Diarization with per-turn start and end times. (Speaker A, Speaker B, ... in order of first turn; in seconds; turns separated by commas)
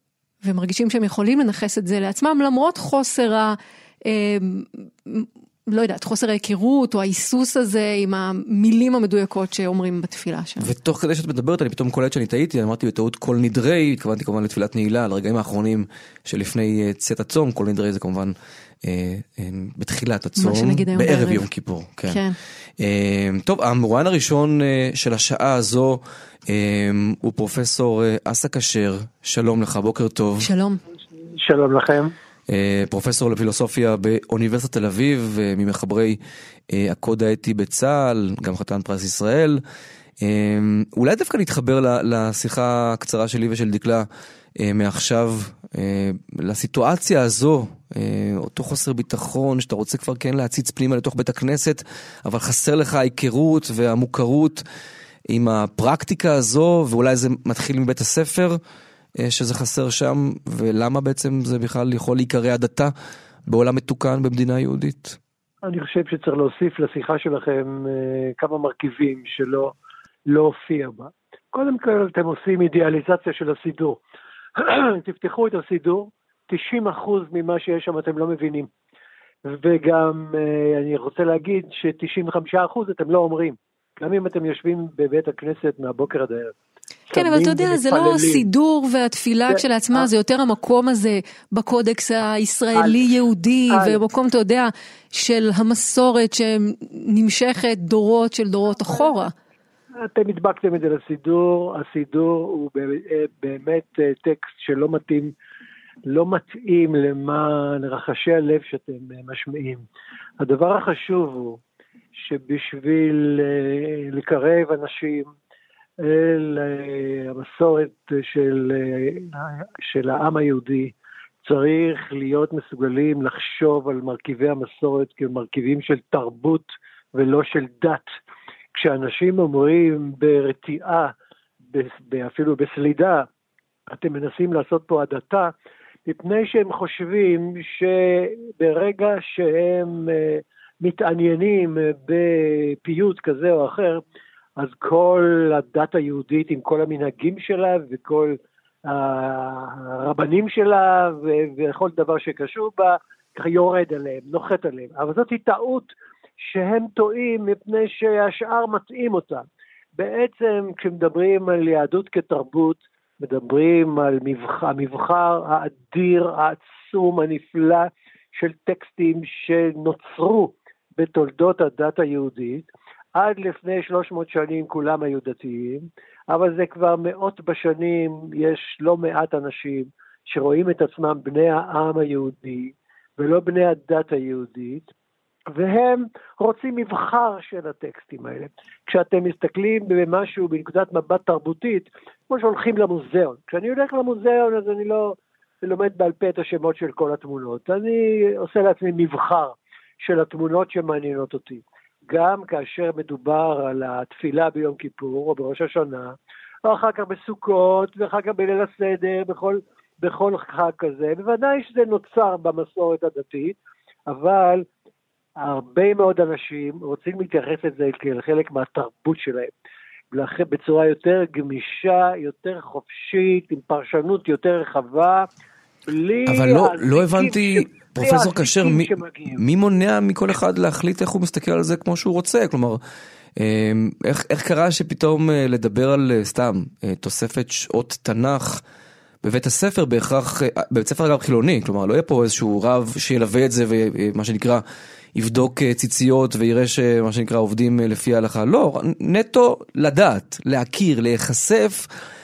Speaker A: 0.4-10.7, Speaker B: 10.6-22.2, Speaker A: 20.4-21.5, Speaker A: 22.1-22.4, Speaker B: 22.8-30.5, Speaker A: 30.4-30.8, Speaker C: 31.3-32.1, Speaker B: 32.5-36.2, Speaker B: 36.7-39.6, Speaker B: 40.2-54.6, Speaker B: 55.3-58.6, Speaker B: 59.2-62.9, Speaker B: 63.5-65.2, Speaker C: 65.6-69.7, Speaker C: 70.3-74.0, Speaker C: 74.6-78.7, Speaker C: 79.5-86.5, Speaker C: 87.1-88.5, Speaker A: 87.1-99.3, Speaker C: 89.5-90.1, Speaker C: 92.7-93.0, Speaker C: 93.7-94.0, Speaker C: 98.8-99.2, Speaker C: 100.0-105.3, Speaker C: 106.1-109.8, Speaker C: 110.4-111.6, Speaker C: 112.1-115.3, Speaker C: 116.0-128.1, Speaker C: 128.7-131.1, Speaker C: 131.7-133.3, Speaker C: 133.9-135.5, Speaker C: 136.1-144.0, Speaker C: 144.6-159.4, Speaker C: 160.0-184.9, Speaker C: 185.5-214.7, Speaker C: 215.4-219.5, Speaker C: 220.1-225.3, Speaker C: 225.8-229.4, Speaker B: 226.3-232.8, Speaker B: 233.4-238.6, Speaker B: 239.2-244.6, Speaker B: 245.1-251.9